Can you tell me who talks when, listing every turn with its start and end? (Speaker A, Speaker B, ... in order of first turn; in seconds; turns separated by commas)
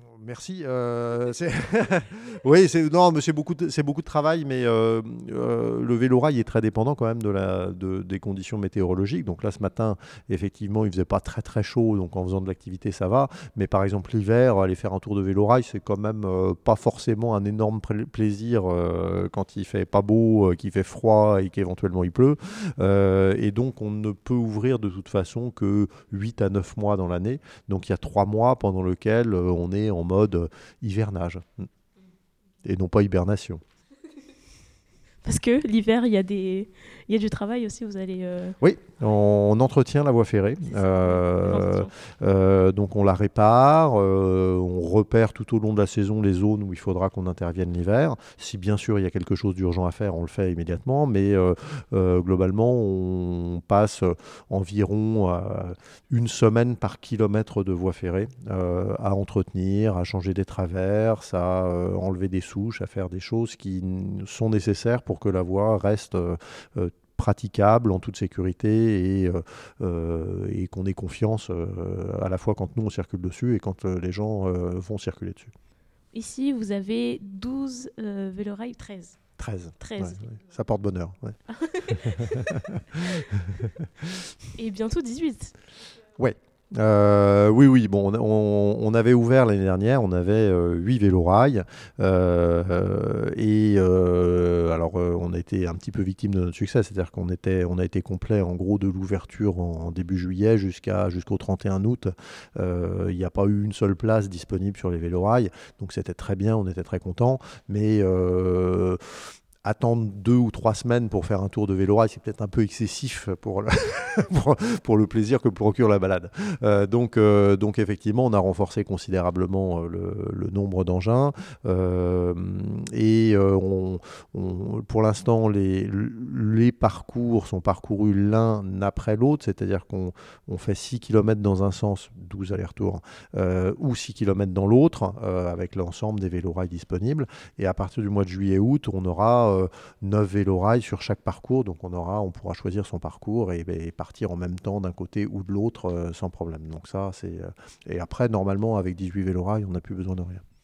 Speaker A: 0.2-31.7, Speaker A: 32.6-33.6, Speaker B: 35.2-38.6, Speaker A: 38.6-75.5, Speaker B: 40.7-41.9, Speaker B: 76.1-79.2, Speaker A: 79.4-81.4, Speaker B: 79.8-80.2, Speaker B: 81.5-82.6, Speaker A: 82.0-83.7, Speaker B: 84.6-85.5, Speaker A: 86.2-109.0, Speaker A: 109.6-150.4